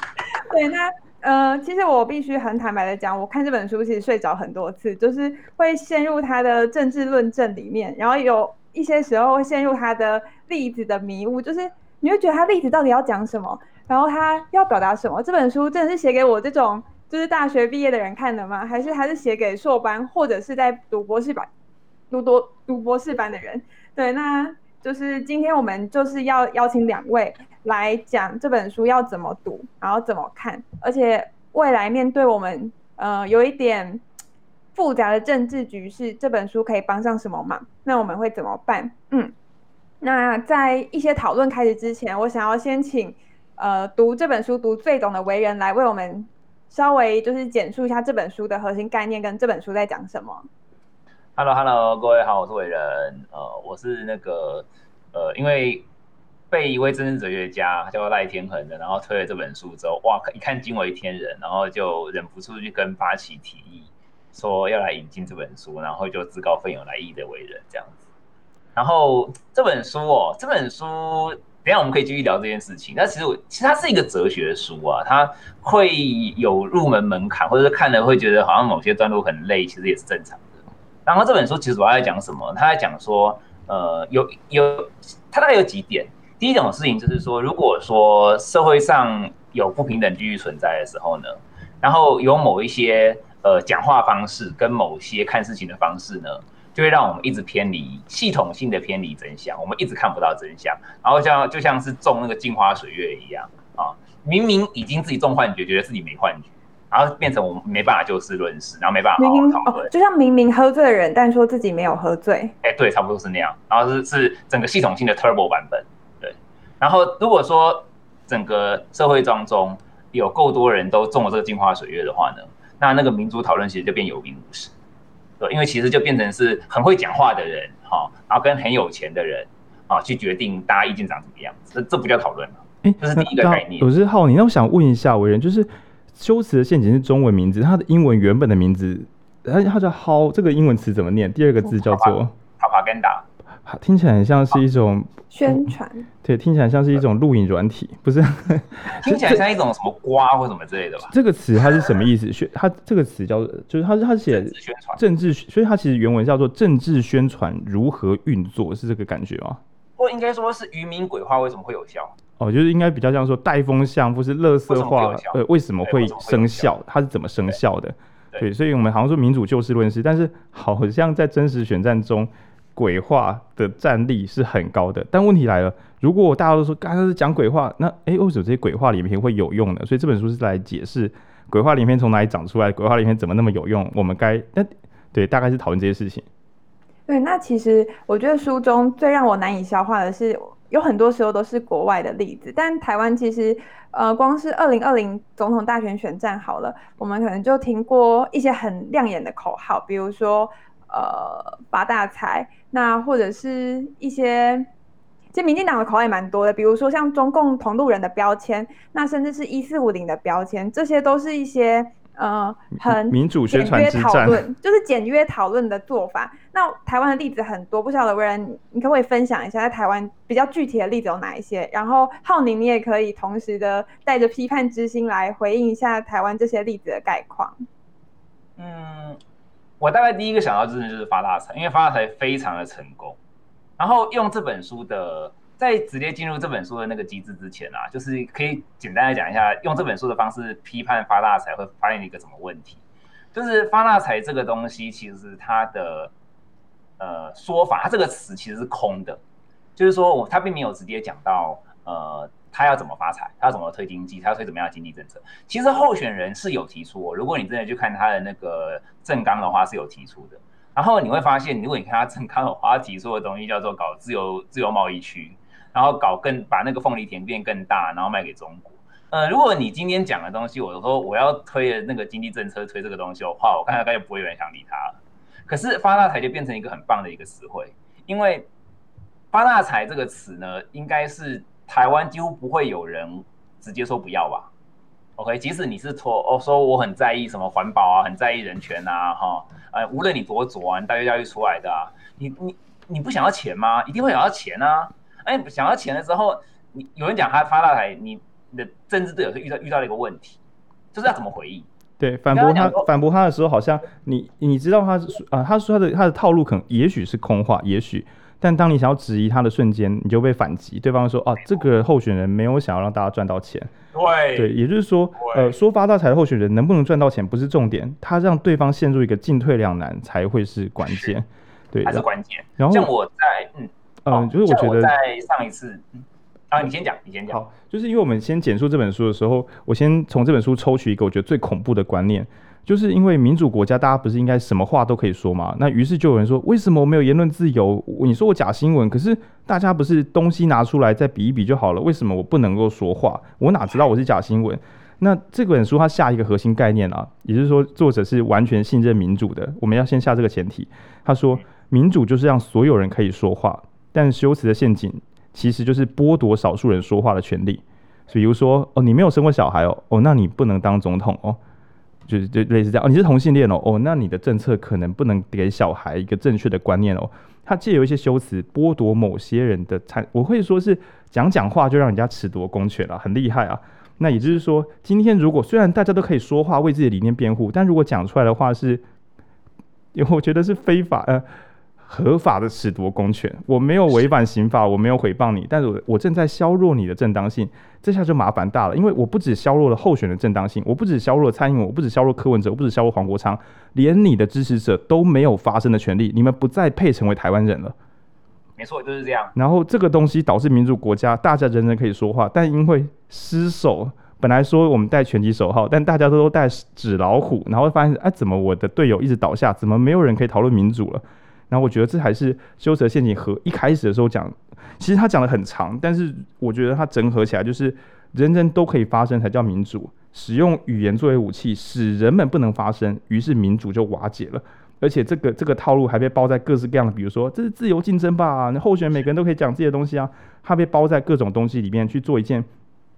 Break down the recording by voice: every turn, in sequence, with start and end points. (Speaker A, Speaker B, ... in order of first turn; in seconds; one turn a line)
Speaker A: 0.3-21.5
Speaker A: 22.1-34.0
Speaker A: 34.8-39.3
Speaker A: 40.0-50.5
Speaker B: 51.4-55.9
Speaker B: 56.5-68.0
Speaker B: 68.8-80.5
Speaker B: 81.1-109.9
Speaker A: 109.2-112.5
Speaker B: 112.6-124.7
Speaker B: 125.4-133.9
Speaker C: 132.8-142.3
Speaker B: 141.6-143.2
Speaker C: 143.7-145.7
Speaker A: 145.3-146.1
Speaker C: 146.2-149.4
Speaker B: 148.9-151.1
Speaker C: 151.1-159.6
Speaker B: 154.3-155.0
Speaker B: 160.0-162.1
Speaker C: 162.4-186.3
Speaker B: 164.7-166.7
Speaker A: 187.1-204.7
Speaker A: 205.3-227.6
Speaker C: 212.7-214.4
Speaker B: 228.6-229.2
Speaker B: 229.8-233.2
Speaker B: 233.8-242.8
Speaker B: 243.3-246.1
Speaker B: 247.0-249.2
Speaker B: 249.8-275.0
Speaker B: 275.5-278.5
Speaker B: 279.3-284.5
Speaker B: 285.2-300.4
Speaker B: 300.9-301.7
Speaker C: 302.0-313.7
Speaker B: 302.3-302.9
Speaker B: 313.9-314.5
Speaker C: 314.4-322.1
Speaker B: 315.2-315.5
Speaker B: 320.8-321.1
Speaker B: 321.9-327.4
Speaker C: 322.6-322.9
Speaker C: 324.0-324.9
Speaker C: 327.3-361.4
Speaker C: 362.1-378.8
Speaker C: 379.9-381.2
Speaker C: 381.8-397.8
Speaker B: 398.6-399.3
Speaker C: 399.4-432.5